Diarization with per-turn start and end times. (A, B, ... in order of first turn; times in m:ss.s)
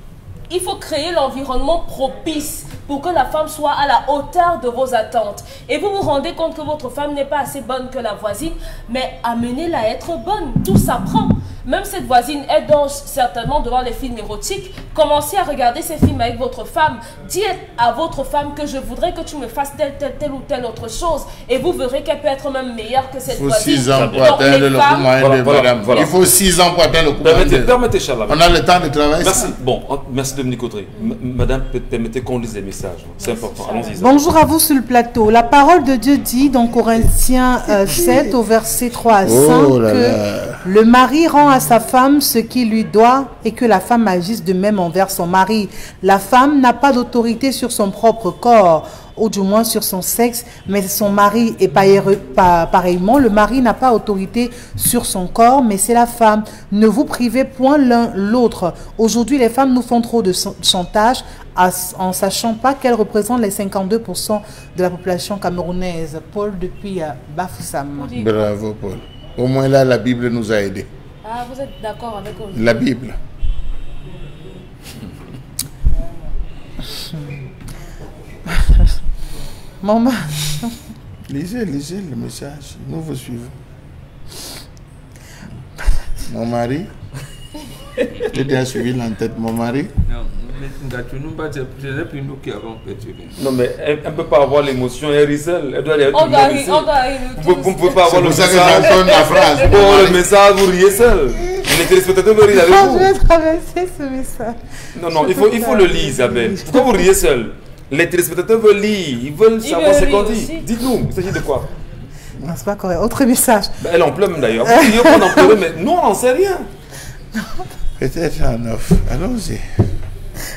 0:00.5-0:25.1 A
0:23.3-0:27.8 B
0:23.9-0:24.4 C
0:25.1-0:26.1 C
0:27.2-0:28.5 C
0:28.3-0:29.5 B
0:29.2-0:34.3 C
0:33.2-0:34.0 A
0:34.0-1:08.1 D
0:39.2-0:40.6 B
1:08.0-1:08.4 A
1:08.2-1:10.9 B
1:11.2-1:12.8 A
1:12.5-1:13.2 B
1:16.9-1:17.3 D
1:18.5-1:18.9 D
1:19.8-1:20.8 D
1:21.3-1:23.5 B
1:26.3-1:26.9 B
1:28.2-1:29.9 B
1:30.1-1:33.4 E
1:33.4-1:43.1 C
1:36.1-1:38.0 A
1:38.0-1:40.2 B
1:38.9-1:39.6 A
1:42.5-1:44.6 D
1:44.9-1:51.7 C
1:45.1-1:47.0 D
1:49.6-1:50.6 A
1:52.4-1:53.7 D
1:53.8-1:56.7 C
1:54.6-1:55.5 D
1:57.3-1:57.6 D
1:58.0-1:59.6 B